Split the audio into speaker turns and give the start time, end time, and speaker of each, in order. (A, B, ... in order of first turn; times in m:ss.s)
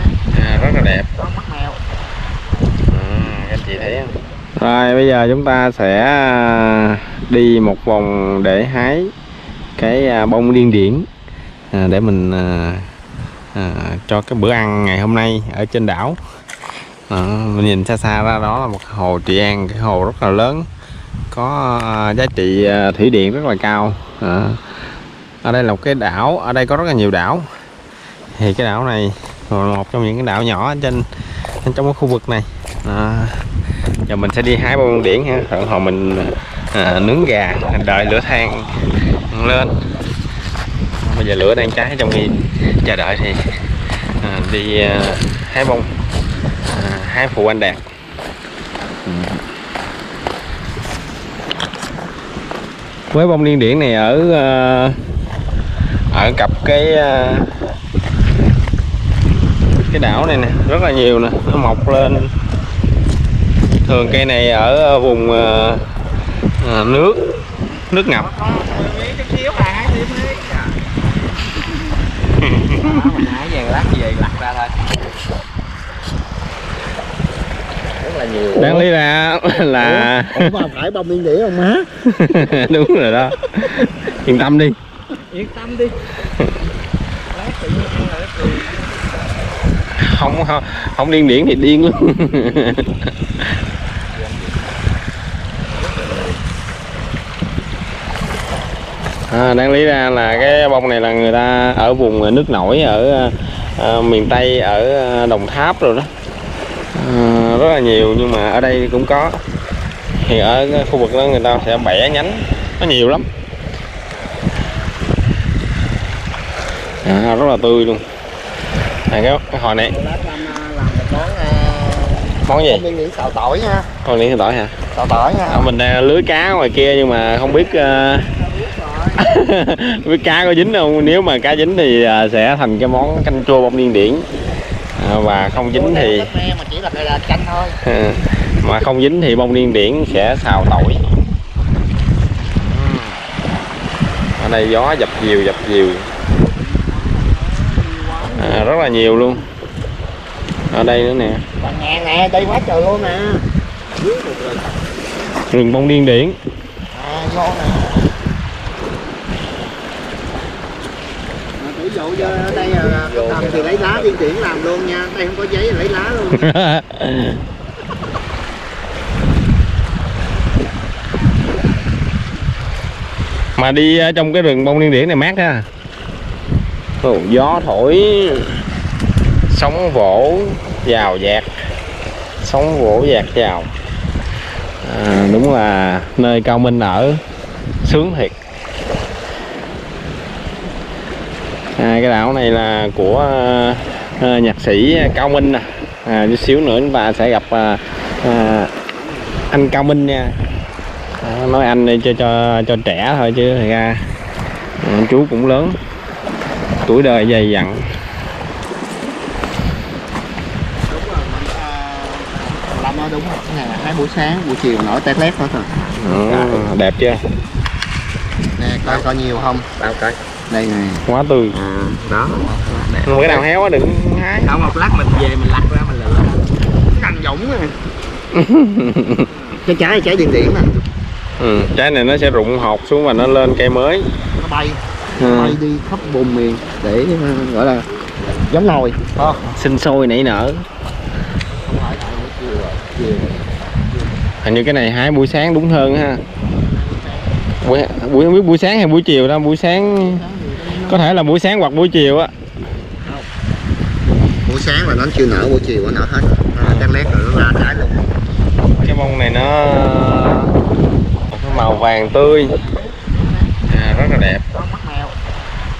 0:00.3-0:01.1 A
0:01.2-0:01.8 B
0:02.9-0:09.1 A
0:09.8-0:11.0 A
0:11.7-0:12.9 A
0:13.5-0:16.2 A
0:17.1-0:20.7 A
0:21.3-0:24.7 A
0:25.4-0:27.5 A
0:28.3-0:31.0 A
0:31.6-0:33.4 A
0:34.1-0:38.7 A
0:39.3-0:39.7 A
0:41.0-0:43.4 A
0:44.2-0:45.9 A
0:46.7-0:47.8 A
0:49.0-0:49.4 A
0:53.1-0:55.0 A
0:56.1-0:57.6 A
0:59.8-1:02.3 A
1:03.8-1:05.8 A
1:06.6-1:07.2 A
1:07.8-1:08.5 A
1:08.5-1:08.8 B
1:12.4-1:13.2 A
1:13.0-1:14.8 C
1:18.0-1:18.9 B
1:18.5-1:20.6 A
1:19.7-1:21.9 B
1:21.9-1:24.8 A
1:25.3-1:25.6 B
1:26.2-1:26.5 A
1:27.3-1:28.8 B
1:29.9-1:33.6 A
1:34.2-1:34.6 C
1:35.9-1:36.3 C
1:39.3-1:46.1 A
1:46.9-1:49.4 A
1:50.1-1:53.2 A
1:57.0-1:58.0 A
1:59.1-2:00.0 A
1:59.8-2:03.9 B
2:02.4-2:02.8 A
2:04.0-2:04.8 A
2:04.9-2:05.7 B
2:05.5-2:08.3 A
2:07.8-2:09.2 B
2:09.1-2:14.2 A
2:15.0-2:16.3 A
2:15.5-2:17.8 B
2:17.8-2:21.0 A
2:22.6-2:23.2 A
2:24.4-2:26.0 A
2:26.6-2:29.0 B
2:28.2-2:29.4 A
2:30.7-2:31.4 A
2:31.6-2:33.4 B
2:34.0-2:34.6 B
2:35.4-2:36.4 A
2:36.9-2:38.0 B
2:41.6-2:46.5 B
2:42.2-2:44.0 A
2:46.3-2:47.4 A
2:53.6-2:55.6 A
2:57.0-2:58.6 A
2:59.5-3:01.5 A
3:02.4-3:03.7 A
3:04.8-3:07.2 A
3:07.8-3:08.3 A
3:11.8-3:18.7 A
3:19.5-3:20.3 A
3:21.2-3:24.1 A
3:24.8-3:25.8 A
3:26.8-3:27.8 A
3:30.9-3:35.8 B
3:36.0-3:37.2 A
3:38.6-3:39.6 B
3:39.8-3:40.2 A
3:40.5-3:43.4 B
3:41.0-3:41.6 A
3:41.9-3:42.9 C
3:43.0-3:44.6 A
3:44.4-3:47.7 B
3:48.3-3:49.3 A
3:49.6-3:50.7 B
3:51.4-3:54.1 A
3:54.4-3:59.4 B
3:55.2-3:55.6 A
3:59.4-4:00.6 A
4:01.6-4:04.1 B
4:04.4-4:06.2 A
4:06.5-4:07.3 B
4:07.6-4:10.2 A
4:09.8-4:11.1 B
4:10.8-4:12.3 A
4:14.4-4:18.1 B
4:16.6-4:16.9 A
4:18.8-4:20.5 A
4:21.3-4:22.6 A
4:23.7-4:24.4 A
4:24.5-4:25.2 B